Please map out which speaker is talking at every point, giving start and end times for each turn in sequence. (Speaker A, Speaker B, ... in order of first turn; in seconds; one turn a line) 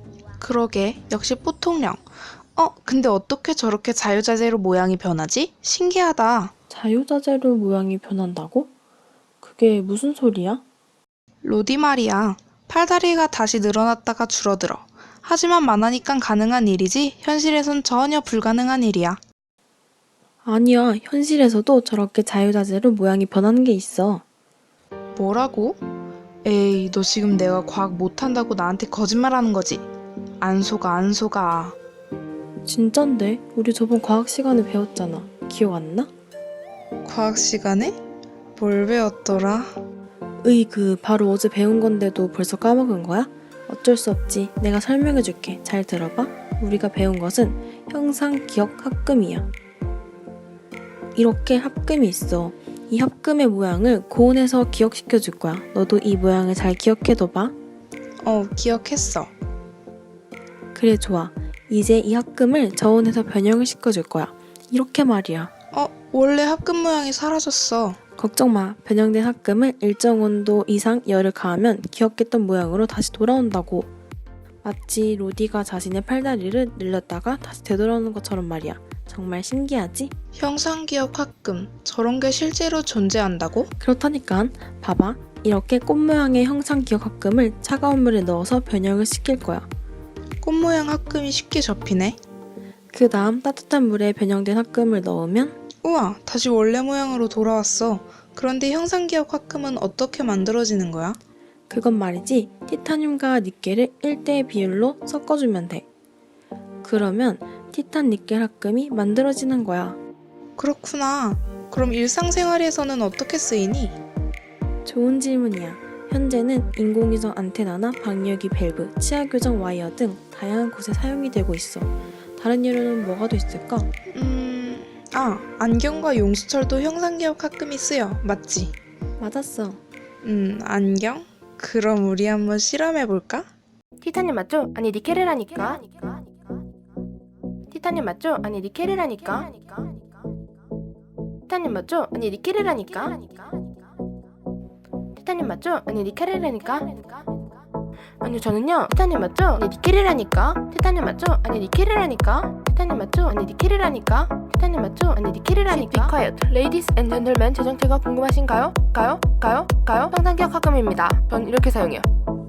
Speaker A: 0.4-6.5
Speaker B: 6.7-8.7
Speaker B: 9.4-10.6
Speaker A: 11.4-19.2
Speaker B: 20.4-24.2
Speaker A: 25.1-25.8
Speaker A: 26.4-29.8
Speaker A: 30.4-31.8
Speaker B: 32.6-36.1
Speaker A: 37.0-38.0
Speaker A: 38.6-39.8
Speaker B: 40.4-49.5
Speaker B: 51.1-57.5
Speaker A: 58.2-59.3
Speaker B: 60.7-65.5
Speaker A: 65.7-68.0
Speaker B: 68.2-73.9
Speaker B: 74.6-80.1
Speaker A: 80.3-83.7
Speaker B: 83.8-89.7
Speaker A: 90.4-92.2
Speaker B: 92.9-95.5
Speaker A: 95.8-101.2
Speaker B: 101.7-105.8
Speaker B: 106.8-110.0
Speaker A: 110.6-114.0
Speaker B: 114.8-123.9
Speaker A: 124.1-128.7
Speaker B: 129.2-129.8
Speaker A: 130.2-133.5
Speaker C: 134.0-136.2
Speaker C: 137.7-139.9
Speaker C: 141.5-143.7
Speaker C: 145.2-147.4
Speaker C: 148.2-162.1